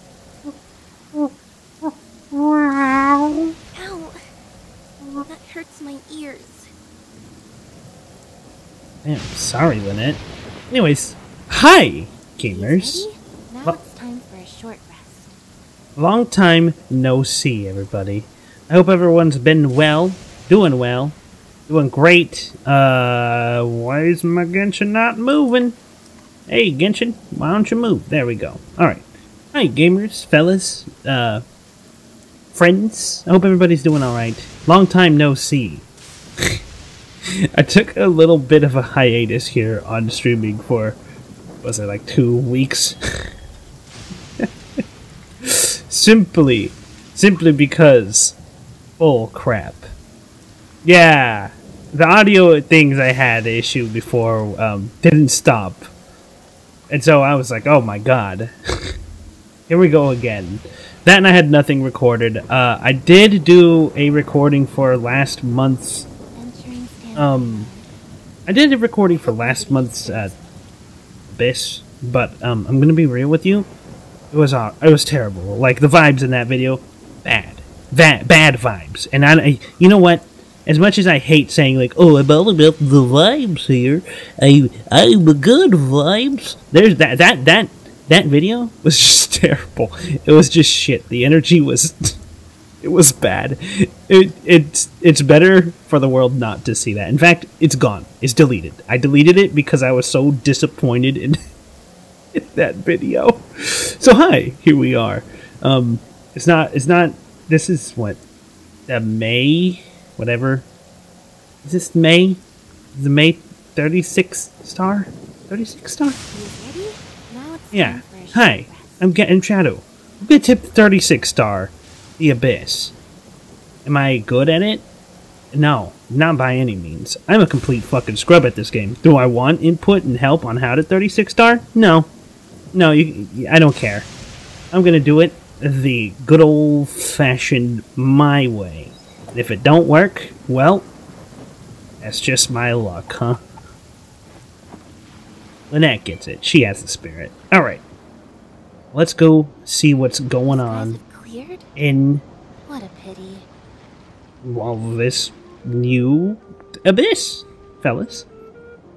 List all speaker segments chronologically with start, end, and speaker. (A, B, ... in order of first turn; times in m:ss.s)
0:01.1-0:03.5 A
0:03.7-0:04.2 B
0:05.1-0:06.7 B
0:09.0-0:13.1 A
0:12.5-0:15.4 B
0:16.0-0:21.2 A
0:21.7-0:25.8 A
0:26.5-0:31.4 A
0:32.5-0:35.9 A
0:37.3-0:41.0 A
0:41.6-0:43.0 A
0:45.4-0:48.4 A
0:49.0-0:49.9 A
0:50.8-0:55.9 A
0:56.9-0:58.9 A
0:59.7-1:06.1 A
1:06.4-1:07.9 B
1:07.2-1:07.7 A
1:08.5-1:10.4 A
1:09.2-1:10.4 B
1:11.3-1:13.7 A
1:14.3-1:32.2 A
1:32.8-1:41.4 A
1:42.3-1:48.2 A
1:48.9-1:50.7 A
1:51.6-1:52.4 A
1:53.0-1:56.2 A
1:56.3-1:59.1 B
1:57.7-2:02.9 A
2:03.8-2:04.8 A
2:05.5-2:12.1 A
2:12.7-2:14.1 A
2:14.7-2:20.9 A
2:22.0-2:23.4 A
2:25.7-2:27.8 A
2:28.9-2:31.0 A
2:30.4-2:31.7 B
2:31.8-2:32.2 A
2:32.7-2:33.5 B
2:34.4-2:38.3 A